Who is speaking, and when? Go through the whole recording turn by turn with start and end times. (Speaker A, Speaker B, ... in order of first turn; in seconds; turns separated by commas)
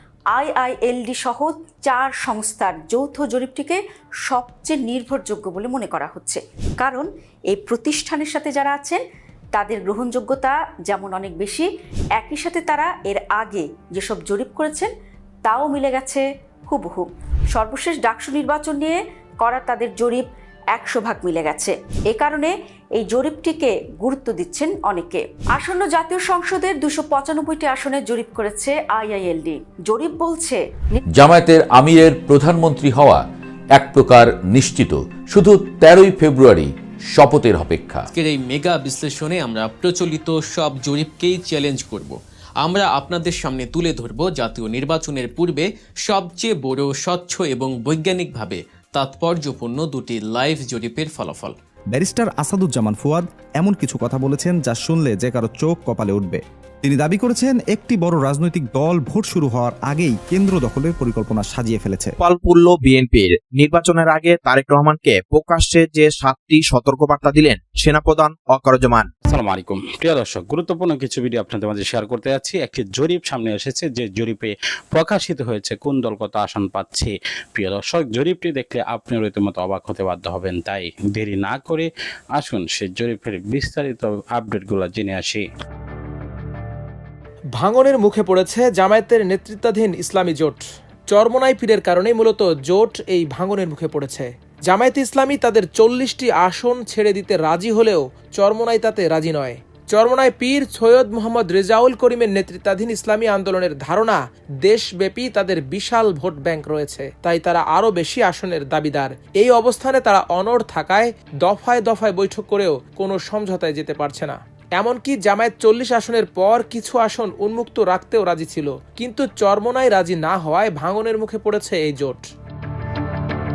Speaker A: 0.3-9.0, Speaker A: 9.5-14.9, Speaker A: 15.4-31.0, Speaker B: 31.1-38.1, Speaker C: 38.1-51.5, Speaker D: 51.9-62.2, Speaker E: 62.2-69.1, Speaker F: 69.3-85.4, Speaker G: 87.6-122.3